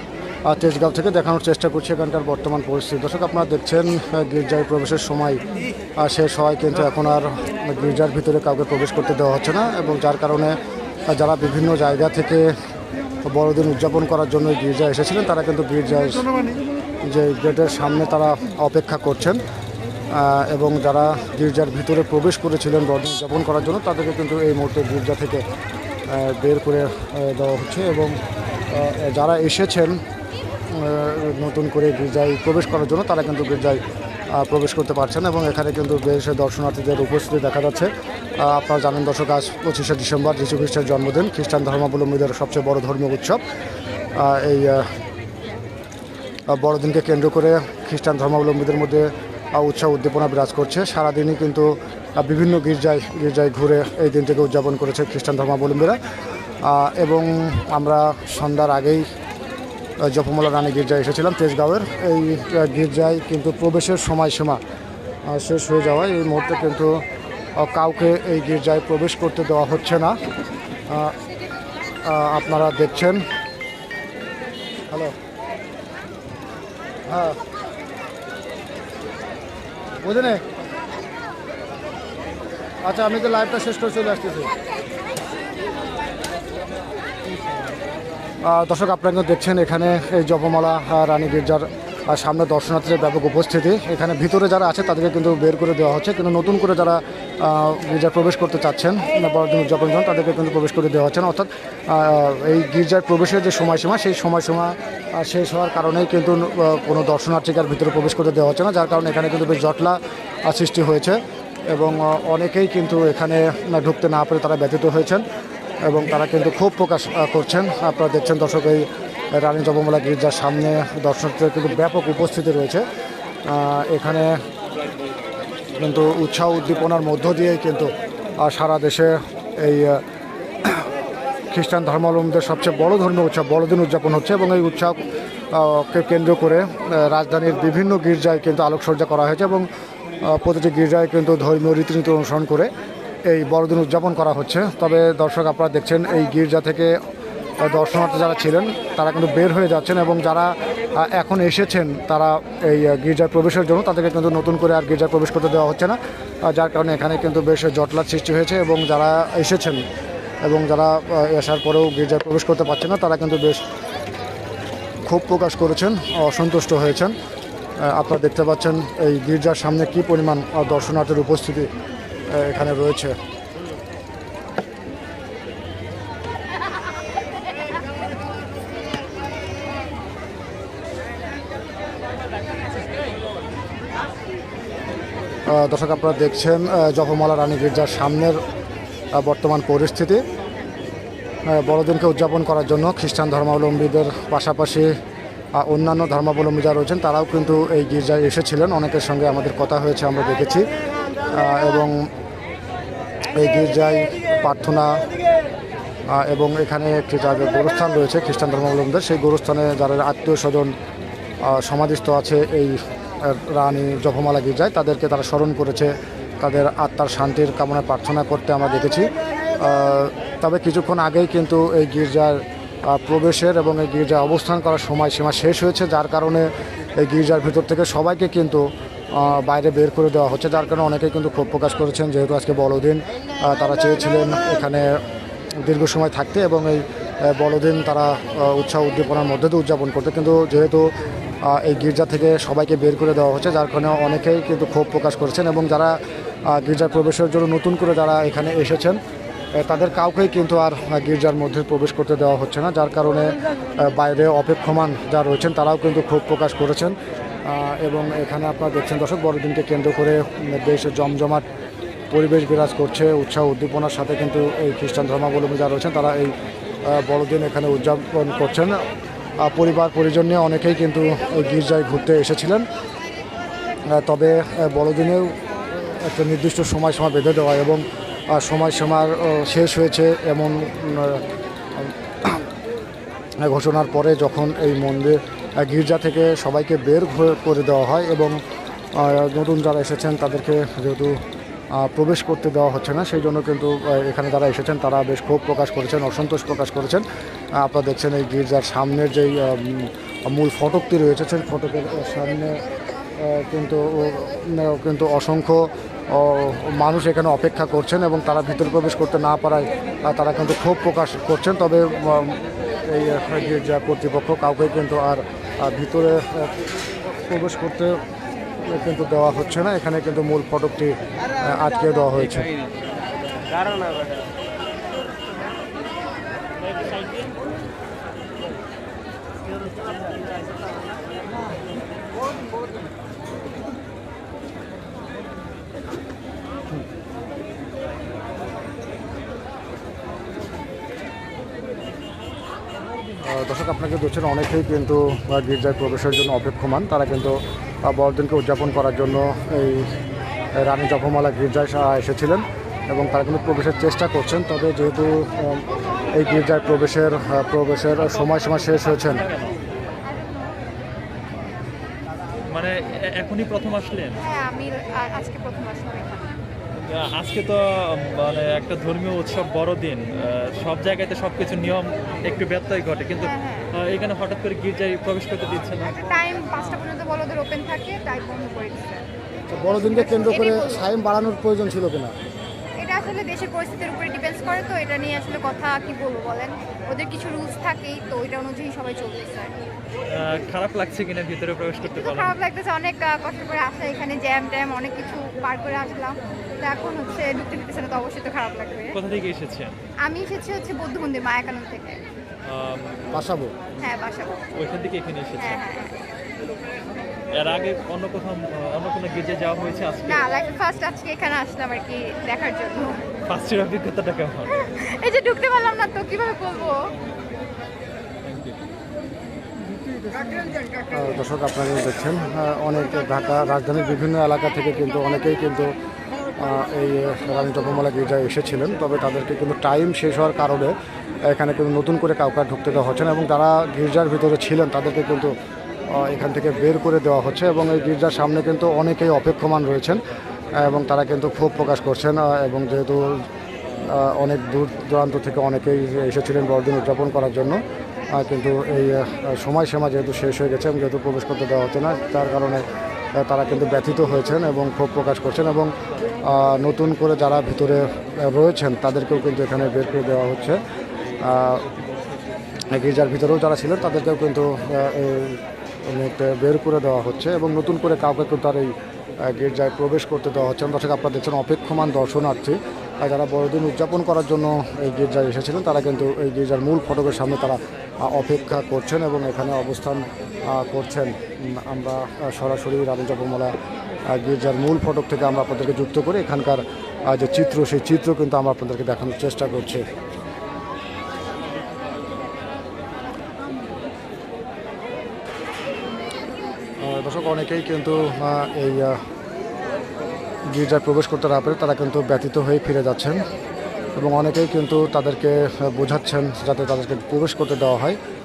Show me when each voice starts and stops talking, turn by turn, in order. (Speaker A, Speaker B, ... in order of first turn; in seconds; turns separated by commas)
Speaker A: 0.5-5.4, Speaker A: 6.0-10.6, Speaker A: 11.1-12.4, Speaker A: 13.2-16.2, Speaker A: 17.0-19.4, Speaker A: 20.1-25.4, Speaker A: 26.1-28.1, Speaker A: 28.7-30.0, Speaker A: 30.7-33.8, Speaker A: 34.3-43.4, Speaker A: 44.2-44.9, Speaker A: 46.5-56.0, Speaker A: 56.6-59.0, Speaker A: 60.1-64.6, Speaker A: 65.3-67.0, Speaker A: 67.6-70.2, Speaker A: 70.9-71.1, Speaker A: 72.0-73.2, Speaker A: 74.9-75.1, Speaker A: 77.1-77.4, Speaker A: 80.0-80.4, Speaker A: 82.8-84.5, Speaker A: 88.4-111.2, Speaker A: 111.7-115.2, Speaker A: 115.8-122.8, Speaker A: 123.5-124.4, Speaker A: 125.8-130.0, Speaker A: 130.7-130.9, Speaker A: 131.5-135.0, Speaker A: 135.5-139.7, Speaker A: 140.2-142.7, Speaker A: 143.3-146.9, Speaker A: 147.6-159.8, Speaker A: 160.4-163.6, Speaker A: 165.1-167.1, Speaker A: 167.8-171.7, Speaker A: 172.3-173.2, Speaker A: 185.5-188.4, Speaker A: 189.1-190.2, Speaker A: 191.5-194.9, Speaker A: 195.6-200.6, Speaker A: 201.3-201.9, Speaker A: 203.3-205.0, Speaker A: 206.1-210.7, Speaker A: 211.4-228.6, Speaker A: 229.2-234.9, Speaker A: 235.6-240.8, Speaker A: 241.4-245.9, Speaker A: 246.5-249.0, Speaker A: 249.6-261.4, Speaker A: 262.1-266.3, Speaker A: 266.9-268.8, Speaker A: 269.4-272.6, Speaker A: 273.9-281.2, Speaker A: 281.8-282.4, Speaker A: 283.4-288.3, Speaker A: 288.9-291.2, Speaker A: 291.8-297.0, Speaker A: 297.6-302.6, Speaker A: 303.2-316.5, Speaker A: 317.2-317.9, Speaker A: 318.6-322.5, Speaker A: 343.2-349.9, Speaker A: 350.6-359.2, Speaker B: 358.2-359.6, Speaker B: 362.5-364.2, Speaker C: 364.2-366.3, Speaker B: 366.8-376.0, Speaker C: 373.2-373.7, Speaker C: 375.8-379.1, Speaker A: 379.5-382.1, Speaker C: 379.8-380.8, Speaker C: 382.8-389.5, Speaker B: 390.1-392.4, Speaker C: 391.8-399.0, Speaker B: 398.9-399.8, Speaker C: 400.0-402.0, Speaker B: 402.4-403.2, Speaker A: 403.1-403.5, Speaker C: 403.8-404.5, Speaker B: 404.6-405.7, Speaker C: 405.4-406.0, Speaker B: 407.3-410.3, Speaker C: 410.1-413.0, Speaker B: 413.3-414.6, Speaker C: 414.5-416.8, Speaker B: 418.2-418.6, Speaker A: 420.9-425.7, Speaker A: 426.4-430.8, Speaker A: 431.3-435.3, Speaker A: 435.9-440.0, Speaker A: 440.6-443.2, Speaker A: 443.9-452.6, Speaker A: 453.2-455.7, Speaker A: 456.2-460.6, Speaker A: 461.2-461.6, Speaker B: 461.4-462.2, Speaker A: 462.7-468.8, Speaker A: 469.3-483.5, Speaker A: 484.1-489.9, Speaker A: 496.8-499.0, Speaker A: 500.5-503.2, Speaker A: 504.0-508.0